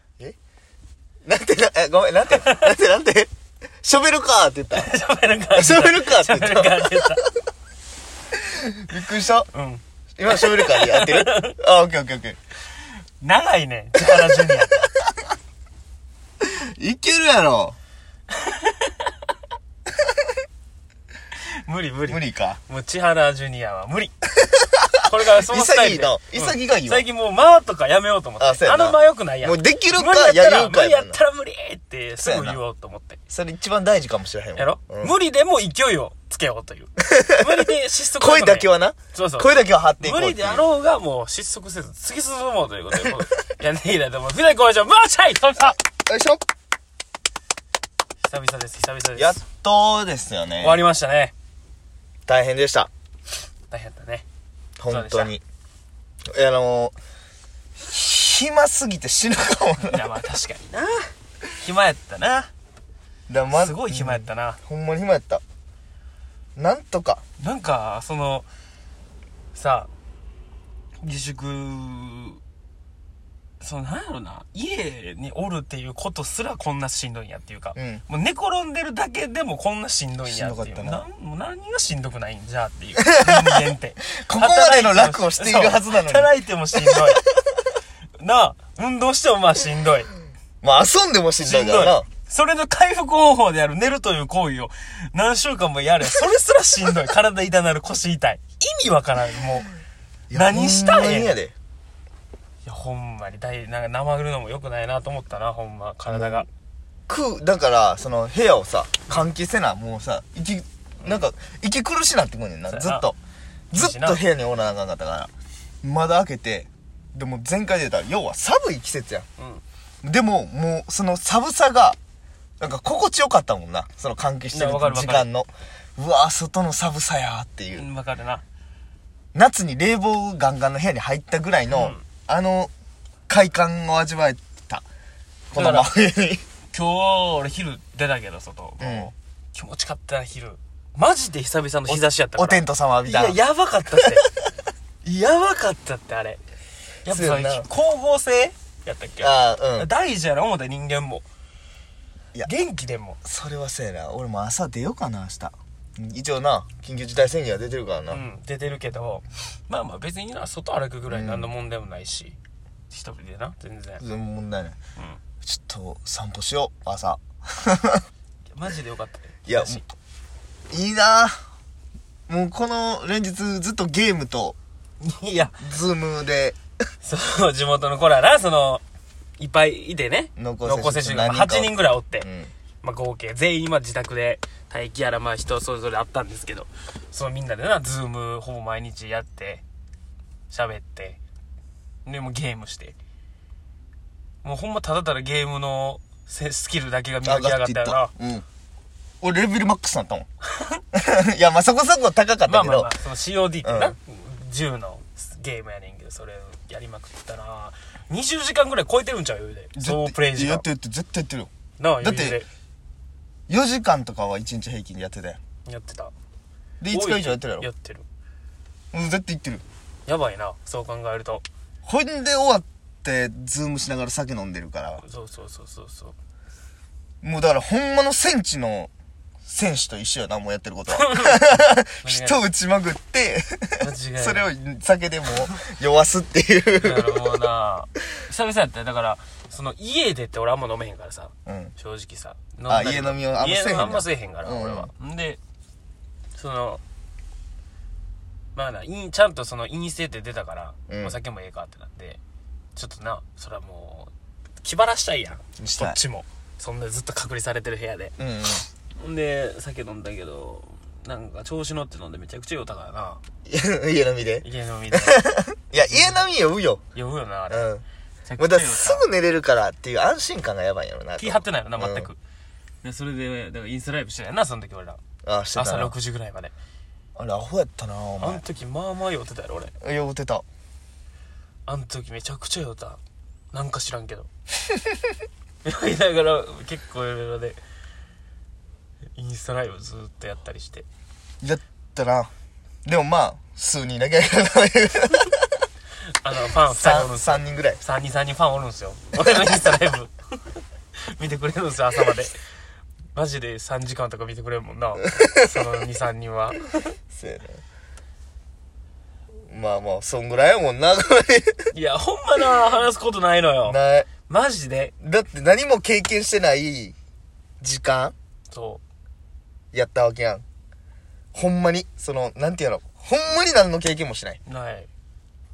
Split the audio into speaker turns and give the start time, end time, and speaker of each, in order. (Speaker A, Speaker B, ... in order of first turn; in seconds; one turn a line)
Speaker A: 1.2-3.3
Speaker B: 2.3-2.7
Speaker A: 3.8-4.9
Speaker B: 4.7-7.2
Speaker A: 5.5-7.2
Speaker A: 8.5-9.5
Speaker B: 9.5-11.6
Speaker A: 10.2-12.4
Speaker B: 13.2-14.9
Speaker A: 14.2-14.6
Speaker A: 16.4-17.8
Speaker B: 18.4-19.0
Speaker B: 21.6-24.1
Speaker A: 22.1-22.6
Speaker A: 24.4-24.7
Speaker B: 25.0-33.2
Speaker A: 25.5-27.0
Speaker A: 28.4-31.2
Speaker A: 32.2-32.6
Speaker A: 33.3-35.1
Speaker B: 34.5-45.8
Speaker A: 37.0-40.6
Speaker A: 46.0-46.4
Speaker B: 48.2-49.4
Speaker A: 49.1-50.8
Speaker B: 50.6-51.3
Speaker A: 52.3-52.9
Speaker B: 53.7-54.2
Speaker A: 54.8-55.4
Speaker B: 54.9-55.3
Speaker A: 56.3-56.9
Speaker A: 57.8-60.1
Speaker B: 59.8-62.5
Speaker A: 63.3-65.4
Speaker B: 63.5-64.6
Speaker A: 66.5-67.2
Speaker B: 67.4-68.5
Speaker B: 69.5-69.9
Speaker B: 71.0-72.4
Speaker B: 73.6-87.2
Speaker A: 77.7-78.0
Speaker A: 80.2-81.0
Speaker A: 83.0-87.2
Speaker B: 88.2-90.1
Speaker A: 90.6-92.0
Speaker B: 91.4-99.7
Speaker A: 100.3-101.5
Speaker B: 100.3-101.3
Speaker B: 102.6-106.5
Speaker A: 106.1-106.4
Speaker A: 107.1-113.2
Speaker B: 112.7-113.1
Speaker A: 113.7-115.3
Speaker B: 113.7-114.2
Speaker A: 115.8-119.2
Speaker B: 119.4-119.6
Speaker A: 120.0-122.0
Speaker A: 122.6-127.8
Speaker B: 124.5-125.3
Speaker B: 127.7-128.4
Speaker A: 129.3-132.7
Speaker B: 131.7-132.0
Speaker A: 133.3-134.8
Speaker A: 135.5-136.4
Speaker B: 135.5-135.9
Speaker B: 136.7-144.2
Speaker A: 138.8-139.1
Speaker A: 141.9-143.4
Speaker B: 145.0-146.4
Speaker B: 147.0-151.2
Speaker A: 147.1-147.7
Speaker A: 149.2-149.9
Speaker B: 152.4-153.2
Speaker A: 153.2-158.2
Speaker B: 158.1-162.3
Speaker A: 161.1-161.5
Speaker B: 162.9-164.0
Speaker A: 164.0-164.8
Speaker A: 165.4-168.0
Speaker B: 168.5-169.8
Speaker A: 169.4-169.8
Speaker A: 170.7-171.3
Speaker A: 172.3-174.6
Speaker B: 175.0-175.6
Speaker A: 175.6-176.6
Speaker B: 177.0-178.8
Speaker B: 179.4-182.2
Speaker A: 180.4-182.5
Speaker B: 182.8-189.6
Speaker B: 190.5-191.2
Speaker B: 192.1-192.9
Speaker B: 194.4-198.1
Speaker A: 197.2-198.4
Speaker A: 199.2-200.2
Speaker A: 200.9-202.9
Speaker B: 202.5-210.6
Speaker A: 203.6-203.9
Speaker A: 209.8-211.5
Speaker B: 211.8-212.5
Speaker A: 212.0-212.4
Speaker A: 213.5-215.4
Speaker B: 215.7-216.1
Speaker A: 216.8-217.7
Speaker B: 216.9-218.0
Speaker A: 218.9-219.6
Speaker B: 220.1-221.4
Speaker A: 221.8-225.0
Speaker B: 225.0-226.1
Speaker A: 227.2-228.9
Speaker A: 229.4-237.2
Speaker B: 230.9-232.4
Speaker B: 233.8-234.5
Speaker B: 236.8-245.4
Speaker A: 241.4-241.7
Speaker A: 242.7-244.9
Speaker B: 246.3-246.8
Speaker B: 248.5-252.2
Speaker A: 250.9-251.2
Speaker B: 252.8-254.1
Speaker B: 254.6-258.1
Speaker A: 255.6-256.0
Speaker A: 258.2-258.6
Speaker B: 259.0-263.2
Speaker A: 263.4-266.8
Speaker B: 264.4-265.2
Speaker B: 265.8-266.2
Speaker B: 266.9-267.7
Speaker A: 267.5-267.8
Speaker B: 268.2-269.0
Speaker A: 268.4-272.1
Speaker B: 271.2-272.2
Speaker B: 272.8-275.0
Speaker A: 275.2-275.9
Speaker B: 275.5-276.5
Speaker A: 277.1-278.4
Speaker B: 278.2-279.7
Speaker A: 279.8-280.4
Speaker B: 281.7-283.0
Speaker B: 283.5-284.3
Speaker B: 285.6-287.6
Speaker B: 289.1-290.9
Speaker A: 291.4-292.3
Speaker A: 292.8-295.5
Speaker B: 296.2-300.1
Speaker A: 296.7-297.8
Speaker B: 301.1-302.3
Speaker B: 303.1-306.9
Speaker A: 307.1-307.6
Speaker A: 309.5-311.7
Speaker B: 311.7-314.9
Speaker A: 313.6-314.1
Speaker A: 315.0-316.9
Speaker A: 317.6-318.1
Speaker B: 318.5-318.8
Speaker A: 319.7-320.4
Speaker A: 321.3-324.4
Speaker B: 324.4-324.9